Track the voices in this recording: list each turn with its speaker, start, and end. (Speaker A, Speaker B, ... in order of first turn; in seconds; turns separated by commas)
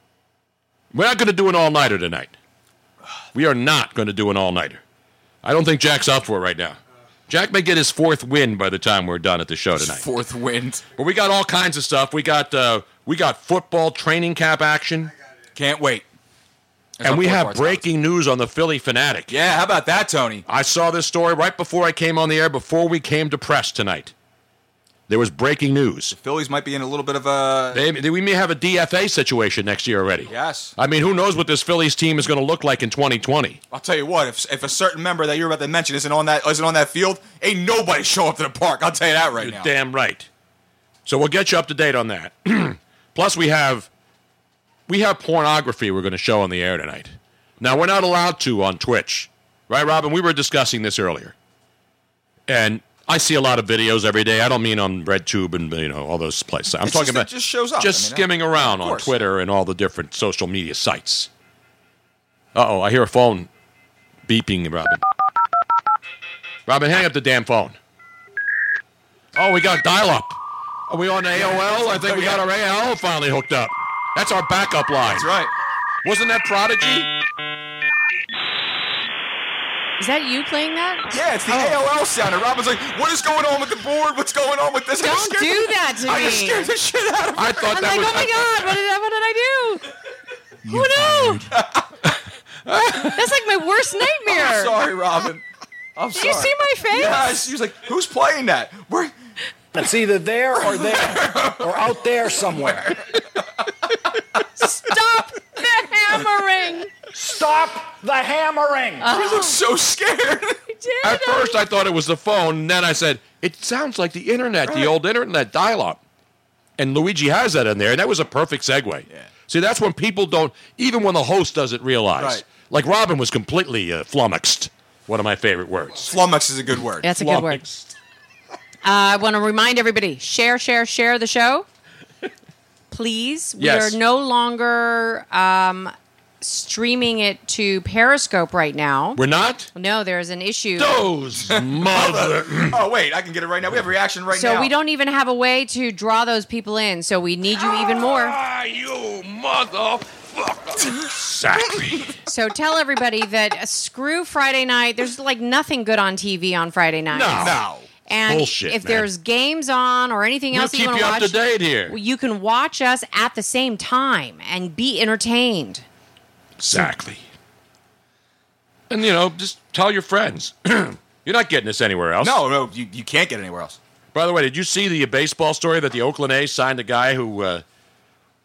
Speaker A: 0.9-2.3, Speaker A: 3.3-4.8, Speaker A: 5.4-6.8, Speaker A: 7.3-10.1, Speaker B: 9.8-10.9, Speaker A: 10.9-15.1, Speaker B: 15.6-16.0, Speaker B: 17.0-17.8, Speaker A: 17.0-19.3, Speaker B: 19.3-20.4, Speaker A: 20.4-24.1, Speaker A: 25.1-26.1, Speaker B: 26.1-27.8, Speaker A: 27.7-33.6, Speaker B: 30.3-30.7, Speaker B: 33.7-39.7, Speaker A: 39.4-40.3, Speaker A: 41.0-43.9, Speaker A: 44.9-51.3, Speaker A: 52.5-57.3, Speaker B: 56.8-59.1, Speaker A: 57.8-61.3, Speaker A: 62.5-63.5, Speaker A: 64.3-65.0, Speaker A: 66.7-67.8, Speaker A: 69.3-70.4, Speaker A: 70.9-75.3, Speaker B: 71.3-72.4, Speaker B: 75.0-75.5, Speaker A: 76.0-77.1, Speaker C: 80.0-81.8, Speaker B: 81.1-88.0, Speaker C: 85.0-86.7, Speaker A: 87.4-88.7, Speaker C: 87.7-89.8, Speaker C: 90.7-91.5, Speaker B: 91.5-91.8, Speaker A: 92.7-93.2, Speaker C: 93.2-94.8, Speaker B: 94.3-95.4, Speaker B: 96.0-99.1, Speaker C: 96.1-97.4, Speaker D: 99.7-103.0, Speaker B: 100.6-101.7, Speaker C: 104.6-106.9, Speaker D: 107.1-109.1, Speaker C: 109.0-109.6, Speaker B: 109.1-110.6, Speaker C: 110.7-111.6, Speaker A: 111.0-116.0, Speaker B: 114.7-114.9, Speaker A: 116.8-126.1, Speaker B: 122.2-122.4, Speaker B: 126.0-127.1, Speaker C: 127.0-127.6, Speaker A: 127.2-127.9, Speaker C: 128.8-131.6, Speaker C: 132.9-139.2, Speaker A: 133.6-134.0, Speaker A: 139.2-139.7, Speaker C: 139.7-141.0, Speaker A: 140.8-142.8, Speaker B: 141.5-144.7, Speaker C: 144.3-148.4, Speaker A: 148.1-152.2, Speaker C: 152.3-165.8, Speaker A: 157.1-157.6, Speaker B: 157.4-157.9, Speaker A: 158.3-159.1, Speaker A: 160.5-161.9, Speaker A: 166.6-167.2, Speaker A: 168.9-172.4, Speaker B: 172.2-173.8, Speaker A: 174.1-177.6